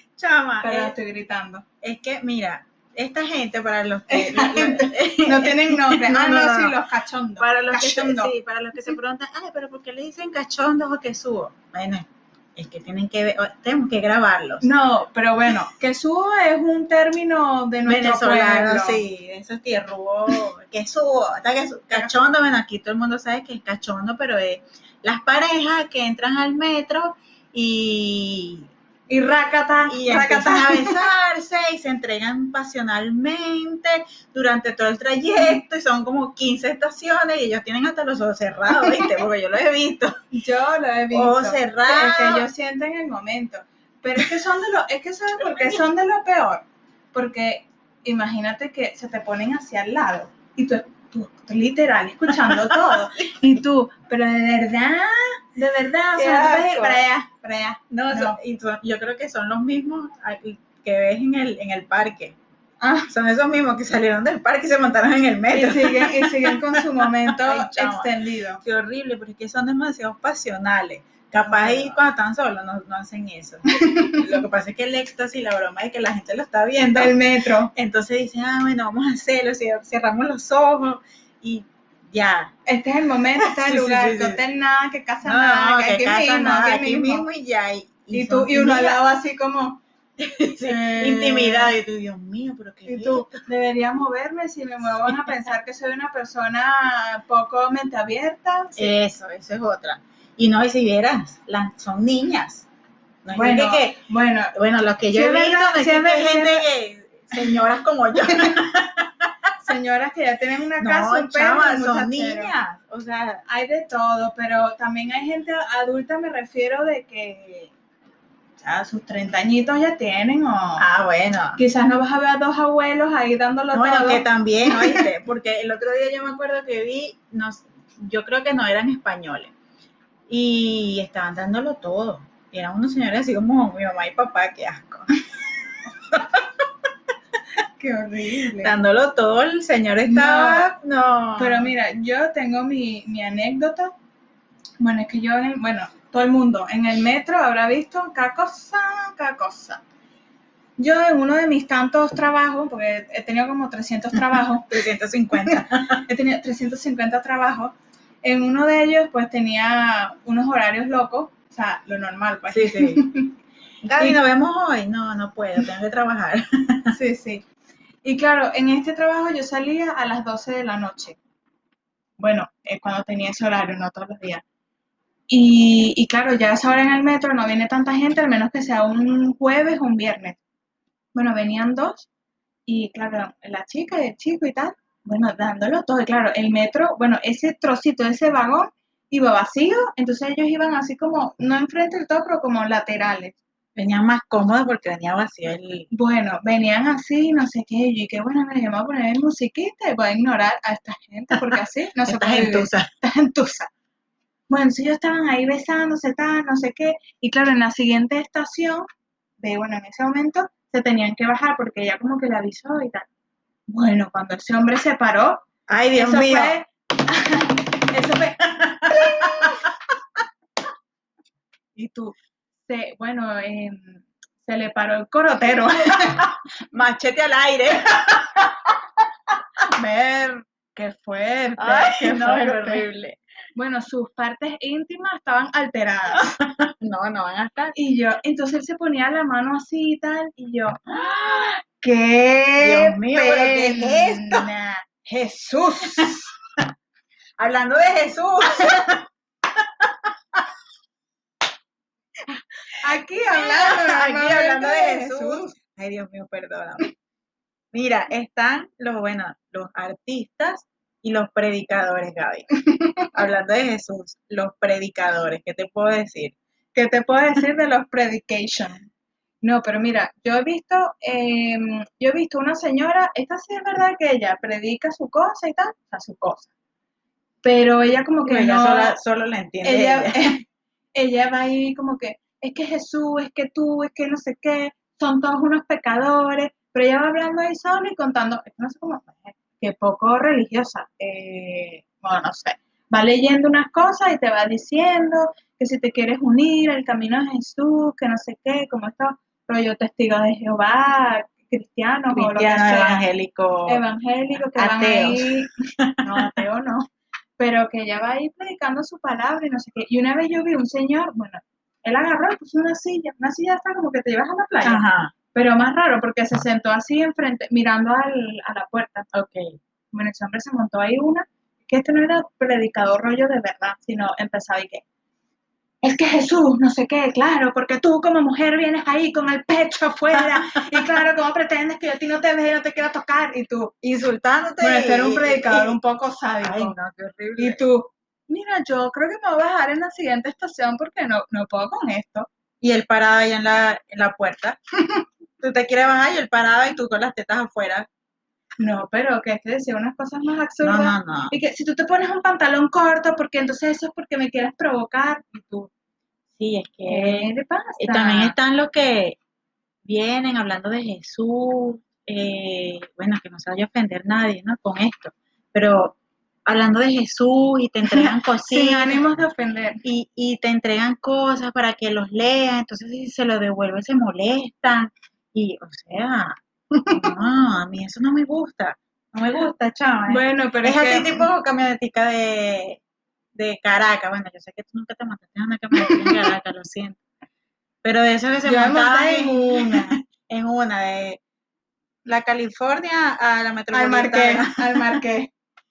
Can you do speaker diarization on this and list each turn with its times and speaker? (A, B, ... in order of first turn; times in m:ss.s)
0:00.2-0:00.9 A
0:00.6-0:01.6 B
0:01.8-0:06.8 A
0:04.1-0:08.3 B
0:07.4-0:14.7 A
0:14.6-0:19.0 B
0:17.9-0:28.7 A
0:29.1-0:31.0 B
0:29.9-0:40.1 A
0:40.3-0:58.4 B
0:41.1-0:42.4 A
0:45.4-0:45.8 A
0:52.5-0:53.0 A
0:56.2-0:57.0 A
0:57.9-1:02.4 A
1:02.8-1:03.1 B
1:03.1-1:13.6 A
1:05.5-1:08.6 B
1:11.4-1:12.0 B
1:13.7-1:14.2 B
1:14.2-1:17.2 A
1:17.0-1:17.7 B
1:17.8-1:22.5 A
1:22.7-1:27.3 B
1:23.4-1:24.4 A
1:25.2-1:29.0 A
1:28.1-1:29.8 B
1:30.2-1:33.4 A
1:30.7-1:31.7 B
1:32.9-1:38.9 B
1:38.8-1:42.7 A
1:43.2-1:44.0 A
1:43.3-1:44.5 B
1:44.5-1:49.3 A
1:45.1-1:46.7 B
1:48.3-1:48.6 B
1:49.6-1:52.5 B
1:50.8-1:53.4 A
1:53.5-1:57.7 B
1:58.6-2:00.8 B
2:00.8-2:01.6 A
2:01.6-2:05.1 B
2:03.7-2:09.5 A
2:10.3-2:15.1 A
2:16.1-2:16.4 A
2:17.8-2:18.8 B
2:18.6-2:21.7 A
2:20.1-2:20.7 B
2:21.4-2:23.9 B
2:24.8-2:29.8 B
2:30.8-2:34.8 B
2:34.3-2:36.0 A
2:35.5-2:43.3 B
2:42.5-2:43.0 A
2:43.8-2:44.2 B
2:44.0-2:47.0 A
2:46.9-2:47.4 B
2:48.0-2:51.2 B
2:52.2-2:54.4 B
2:55.3-3:00.4 B
3:01.2-3:02.1 B
3:02.7-3:13.4 B
3:13.8-3:15.9 A
3:15.9-3:23.7 B
3:22.1-3:22.9 A
3:24.5-3:28.8 B
3:29.4-3:33.1 B
3:33.7-3:35.4 B
3:35.7-3:36.6 A
3:36.0-3:39.7 B
3:38.6-3:39.5 A
3:41.8-3:42.2 B
3:42.7-3:46.3 B
3:46.7-3:48.8 A
3:49.8-3:50.1 B
3:49.9-3:50.3 A
3:50.7-3:52.9 B
3:51.6-3:53.2 A
3:53.6-3:56.3 B
3:56.8-3:57.7 A
3:57.8-4:06.3 B
4:02.6-4:04.6 A
4:07.4-4:09.0 A
4:09.6-4:10.4 A
4:12.8-4:15.5 B
4:13.3-4:16.8 A
4:17.7-4:22.5 A
4:22.7-4:23.1 B
4:23.1-4:26.4 A
4:26.7-4:28.8 B
4:29.4-4:36.5 B
4:37.4-4:39.0 B
4:38.3-4:40.4 A
4:39.6-4:40.4 B
4:40.9-5:03.0 B
5:02.1-5:03.8 A
5:03.7-5:14.8 B
5:04.4-5:05.3 A
5:05.9-5:06.3 A
5:14.6-5:15.1 A
5:15.3-5:19.1 B
5:19.1-5:19.5 A
5:19.9-5:24.8 B
5:25.8-5:33.7 B
5:30.2-5:30.9 A
5:33.8-5:35.8 A
5:34.6-5:36.8 B
5:36.4-5:37.6 A
5:37.4-5:42.3 B
5:42.6-5:44.6 A
5:45.4-5:47.9 A
5:48.6-5:55.7 B
5:50.6-5:51.3 A
5:56.4-5:59.2 A
5:56.9-5:58.4 B
5:59.8-6:06.0 A
6:06.5-6:09.0 A
6:07.9-6:09.8 B
6:09.8-6:22.8 A
6:20.1-6:21.3 B
6:23.4-6:27.0 A
6:25.8-6:26.2 B
6:27.8-6:31.2 A
6:28.4-6:29.9 B
6:32.1-6:34.9 A
6:33.7-6:35.3 B